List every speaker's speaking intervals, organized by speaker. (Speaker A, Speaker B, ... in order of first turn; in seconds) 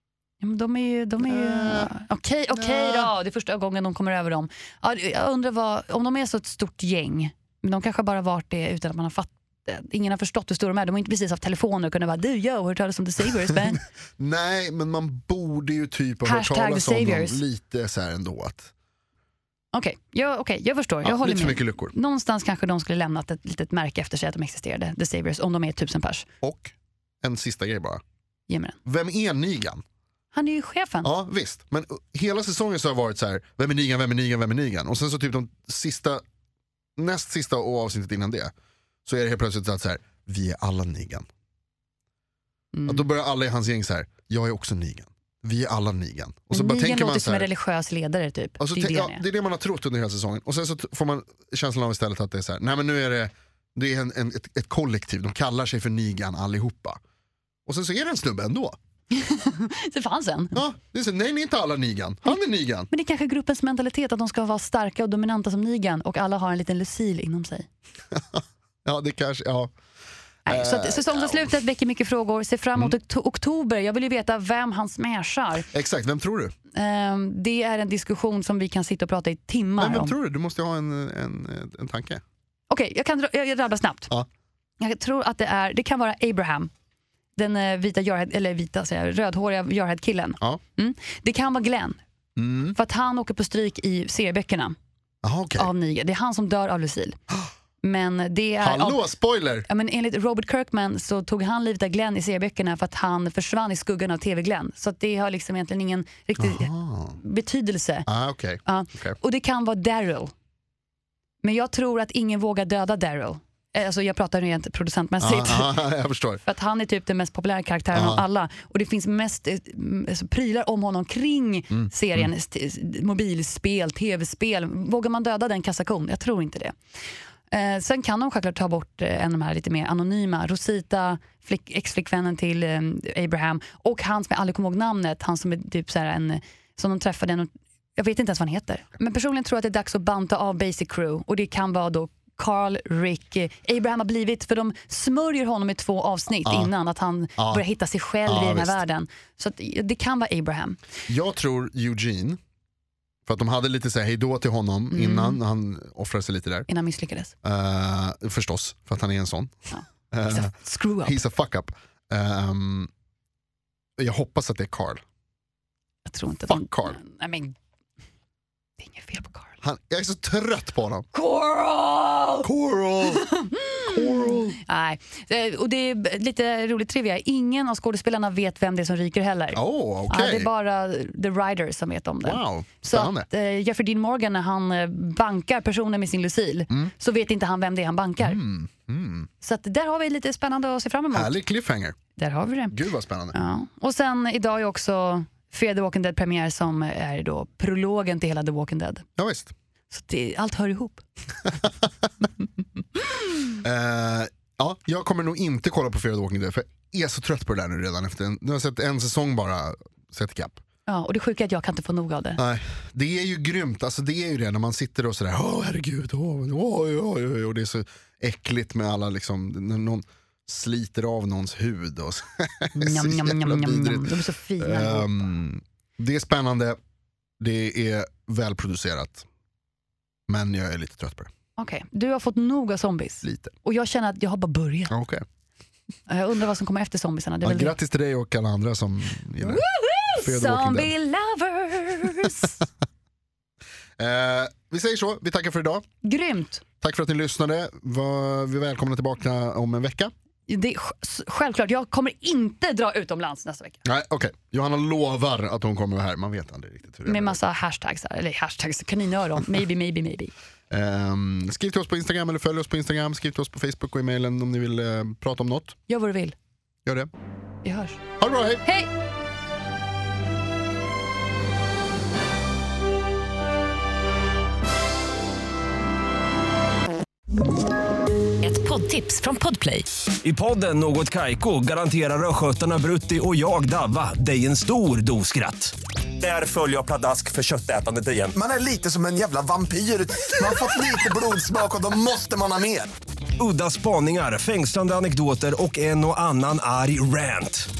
Speaker A: 0.4-13.8, 16.2-17.4, 19.7-26.2, 28.5-28.8, 30.3-31.1, 42.7-43.0, 46.5-49.2, 59.1-60.6, 62.9-67.7, 70.5-75.7, 76.7-80.1, 82.7-84.1, 84.8-86.7, 87.3-92.0, 92.7-94.8, 95.5-97.2, 97.8-99.0, 99.7-108.1, 108.6-110.3, 111.4-115.8, 116.4-126.8, 127.5-150.8, 154.9-155.4, 156.7-157.3, 159.7-161.2, 166.1-167.5, 168.8-169.6, 171.1-172.5, 173.1-188.4, 189.4-191.3, 192.2-192.8, 193.3-199.1, 199.9-201.0, 210.9-212.4, 222.7-225.2, 231.6-234.9, 236.1-237.7, 239.4-242.6, 246.0-246.6, 250.5-253.8, 257.1-260.3, 265.9-266.3, 267.6-268.0, 268.6-268.9, 278.4-279.9
Speaker B: 1.2-1.9, 2.5-3.1, 14.2-18.7, 21.0-21.9, 26.4-28.0, 28.8-29.8, 31.0-36.2, 37.0-38.5, 39.0-41.3, 42.9-47.5, 48.6-57.0, 57.6-58.8, 60.5-62.9, 68.1-69.7, 70.5-71.5, 75.7-76.5, 79.8-82.2, 92.3-92.8, 95.2-95.7, 98.6-99.7, 106.4-107.2, 108.1-109.2, 115.2-116.4, 117.9-118.2, 121.7-122.3, 146.4-146.7, 147.4-147.6, 148.2-148.8, 151.1-152.4, 153.2-156.7, 157.4-162.9, 164.0-165.0, 166.5-167.0, 169.6-171.1, 172.4-173.3, 173.8-174.6, 179.5-180.5, 182.2-183.2, 188.2-189.3, 191.1-192.0, 192.7-193.3, 199.2-199.5, 201.5-201.9, 203.6-210.6, 212.4-226.8, 227.4-229.2, 230.3-231.3, 233.2-233.5, 234.9-235.2, 237.4-239.6, 240.2-240.9, 244.0-245.8, 246.8-250.1, 253.8-257.4, 260.7-265.8, 266.8-267.1, 268.2-268.6
Speaker C: 280.2-288.4, 293.4-297.7
Speaker D: 288.3-292.9